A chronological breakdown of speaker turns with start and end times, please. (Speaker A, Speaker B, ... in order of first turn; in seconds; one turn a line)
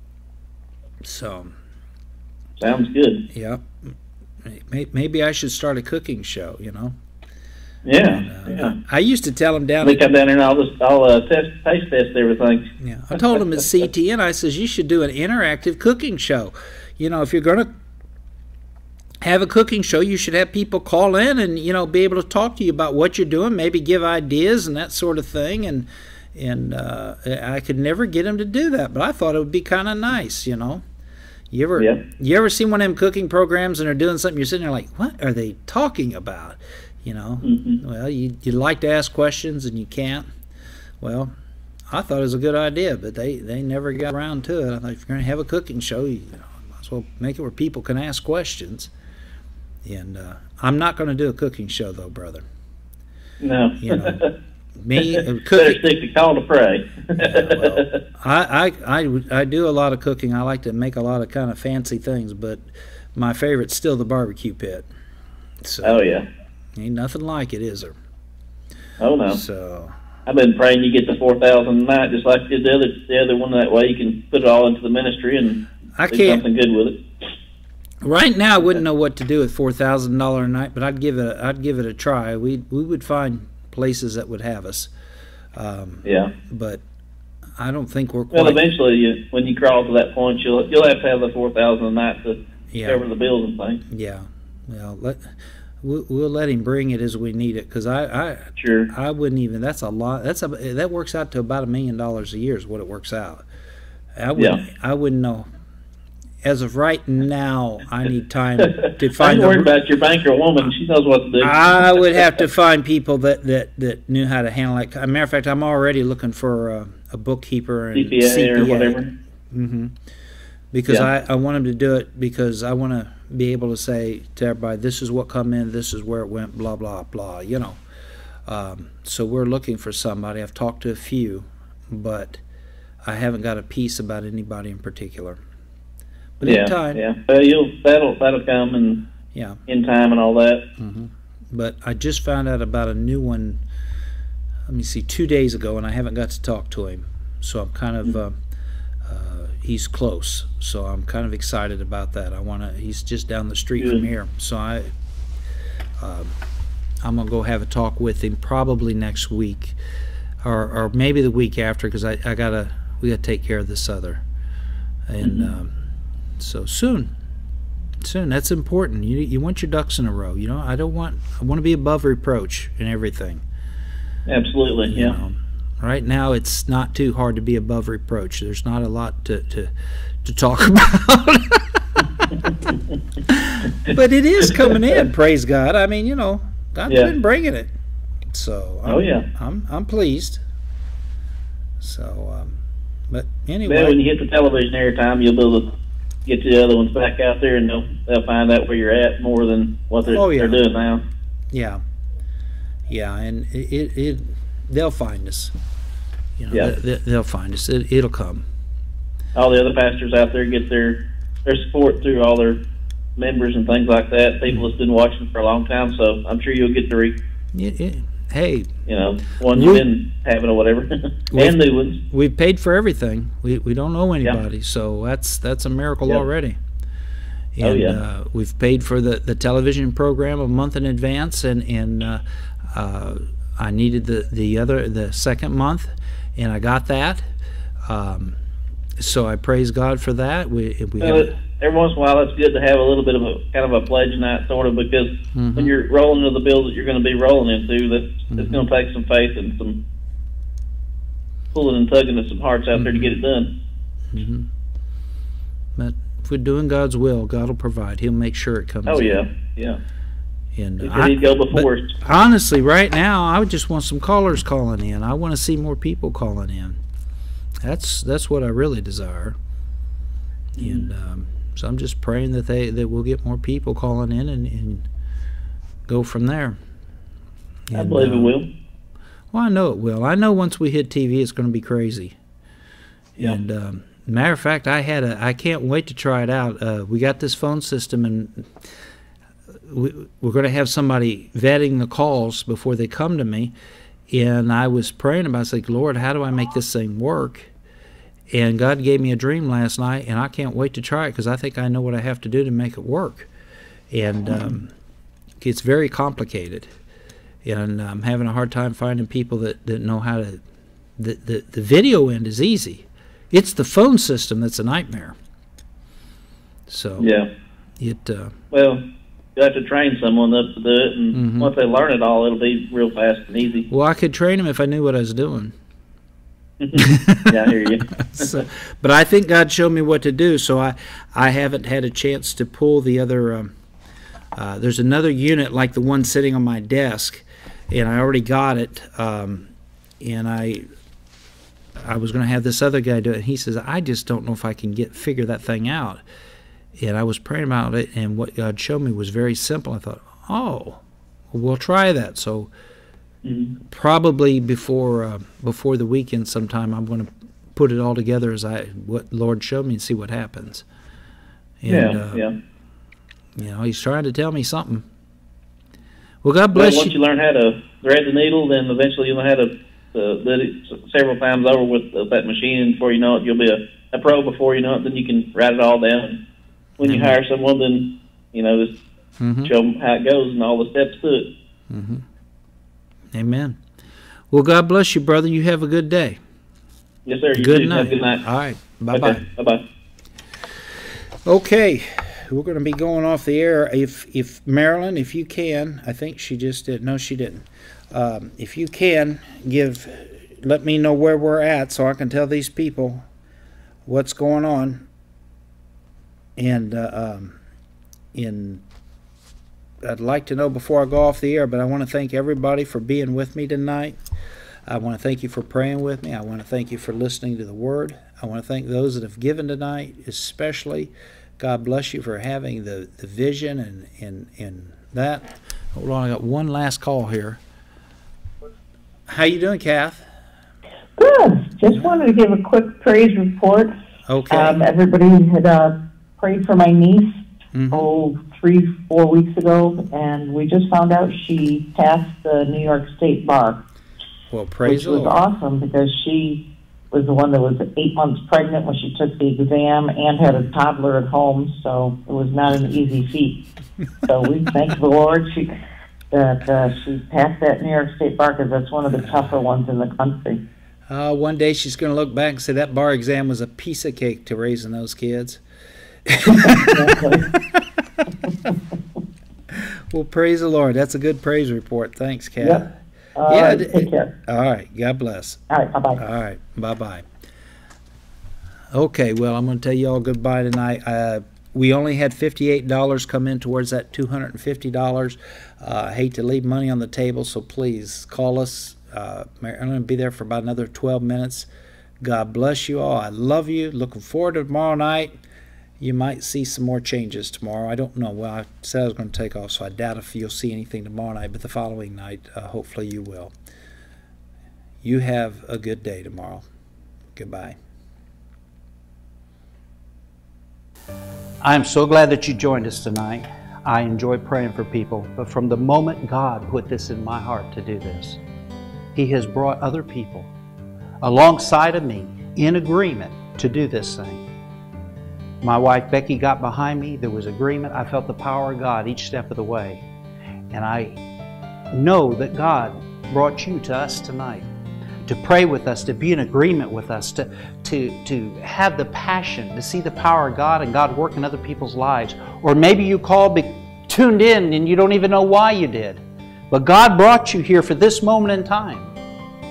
Speaker A: 1.0-1.5
Speaker B: 2.6-3.2
Speaker A: 3.3-3.9
Speaker A: 4.4-6.9
Speaker B: 7.8-8.7
Speaker A: 8.0-10.0
Speaker B: 9.8-12.6
Speaker A: 12.8-17.7
Speaker A: 19.2-30.8
Speaker A: 31.5-40.3
Speaker B: 37.4-37.8
Speaker A: 41.0-41.3
Speaker A: 41.9-48.9
Speaker A: 49.8-52.4
Speaker B: 53.4-54.3
Speaker A: 53.8-54.3
Speaker A: 54.8-55.8
Speaker B: 55.0-58.0
Speaker A: 57.1-64.9
Speaker A: 65.6-66.0
Speaker B: 65.8-66.2
Speaker A: 66.8-68.0
Speaker B: 69.0-69.4
Speaker A: 69.3-69.9
Speaker B: 70.2-77.0
Speaker A: 76.0-76.4
Speaker A: 78.0-84.9
Speaker A: 85.5-86.8
Speaker B: 86.0-86.3
Speaker A: 87.6-88.6
Speaker B: 88.3-93.8
Speaker A: 92.7-93.0
Speaker A: 93.9-103.4
Speaker B: 98.6-98.9
Speaker A: 104.2-105.5
Speaker B: 104.3-104.6
Speaker A: 106.4-109.7
Speaker B: 108.6-112.0
Speaker A: 111.4-119.9
Speaker B: 117.9-119.1
Speaker A: 120.7-127.8
Speaker A: 128.4-132.4
Speaker A: 133.0-135.4
Speaker A: 136.4-137.0
Speaker B: 136.4-139.0
Speaker A: 139.3-139.6
Speaker B: 139.7-140.6
Speaker A: 140.8-143.6
Speaker A: 144.7-148.4
Speaker A: 149.1-154.9
Speaker B: 153.8-154.1
Speaker A: 156.0-156.3
Speaker A: 157.0-159.8
Speaker A: 160.4-164.2
Speaker A: 165.1-165.7
Speaker B: 165.2-165.5
Speaker A: 166.4-167.1
Speaker A: 168.0-173.4
Speaker B: 174.3-175.2
Speaker A: 174.8-179.7
Speaker A: 180.2-182.5
Speaker A: 183.3-187.7
Speaker A: 188.3-190.4
Speaker B: 188.9-189.2
Speaker A: 191.8-194.0
Speaker B: 193.6-195.7
Speaker B: 196.2-201.0
Speaker A: 200.1-200.6
Speaker A: 201.5-201.8
Speaker A: 202.9-205.5
Speaker A: 206.4-208.4
Speaker B: 209.3-212.6
Speaker B: 213.2-217.2
Speaker A: 217.5-218.7
Speaker B: 218.9-222.0
Speaker A: 219.5-219.8
Speaker A: 221.3-226.6
Speaker A: 227.6-237.2
Speaker B: 227.6-228.0
Speaker A: 237.8-238.4
Speaker A: 239.0-241.4
Speaker B: 241.0-249.8
Speaker A: 245.3-245.7
Speaker A: 248.3-248.7
Speaker B: 251.5-253.5
Speaker A: 252.7-253.1
Speaker A: 254.1-254.5
Speaker A: 255.8-259.2
Speaker B: 258.9-259.8
Speaker A: 260.5-266.8
Speaker B: 260.8-261.9
Speaker A: 267.6-269.4
Speaker A: 270.6-274.9
Speaker B: 270.6-270.9
Speaker A: 275.9-276.6
Speaker A: 277.7-278.3
Speaker B: 277.7-278.5
Speaker A: 279.3-282.1
Speaker A: 283.2-288.5
Speaker A: 289.6-293.5
Speaker A: 294.1-297.5
Speaker A: 298.3-303.3
Speaker A: 303.9-304.7
Speaker B: 304.3-304.5
Speaker A: 305.4-306.7
Speaker A: 307.4-310.4
Speaker A: 311.0-315.1
Speaker A: 316.7-317.1
Speaker B: 317.0-317.3
Speaker A: 317.8-318.4
Speaker B: 318.5-318.8
Speaker B: 319.4-323.7
Speaker A: 321.1-321.5
Speaker A: 323.7-325.5
Speaker B: 326.6-328.4
Speaker A: 326.7-333.5
Speaker A: 334.3-340.6
Speaker A: 341.8-346.0
Speaker A: 346.8-352.5
Speaker B: 353.2-353.5
Speaker A: 353.6-360.6
Speaker A: 361.6-362.2
Speaker B: 361.7-362.3
Speaker A: 363.4-364.9
Speaker A: 366.2-366.9
Speaker B: 366.5-376.2
Speaker B: 376.8-378.7
Speaker A: 376.8-377.2
Speaker A: 379.2-379.5
Speaker B: 379.4-381.3
Speaker A: 381.7-382.0
Speaker A: 383.1-383.6
Speaker A: 384.3-386.2
Speaker B: 387.1-388.2
Speaker A: 387.3-389.2
Speaker B: 388.9-389.6
Speaker A: 391.2-403.0
Speaker A: 403.9-404.9
Speaker A: 406.4-407.4
Speaker A: 408.1-408.6
Speaker A: 409.8-414.0
Speaker A: 414.6-427.4
Speaker A: 429.1-430.1
Speaker C: 431.0-433.7
Speaker A: 431.7-431.9
Speaker A: 434.1-434.7
Speaker C: 434.3-437.1
Speaker A: 437.5-437.9
Speaker C: 437.7-443.6
Speaker A: 444.3-445.2
Speaker C: 444.6-453.4
Speaker C: 454.0-455.5
Speaker C: 456.1-460.4
Speaker A: 460.9-465.4
Speaker A: 466.1-467.7
Speaker C: 466.3-467.3
Speaker A: 469.5-472.7
Speaker C: 472.4-474.1
Speaker A: 473.3-475.4
Speaker C: 475.5-476.0
Speaker A: 476.0-477.0
Speaker A: 478.7-491.5
Speaker A: 492.0-495.1
Speaker A: 495.8-503.3
Speaker A: 504.8-506.4
Speaker A: 507.1-507.6
Speaker A: 511.4-518.2
Speaker A: 518.9-520.3
Speaker A: 521.0-524.2
Speaker A: 525.4-529.8
Speaker A: 530.5-531.0
Speaker A: 531.7-534.5
Speaker A: 535.0-548.9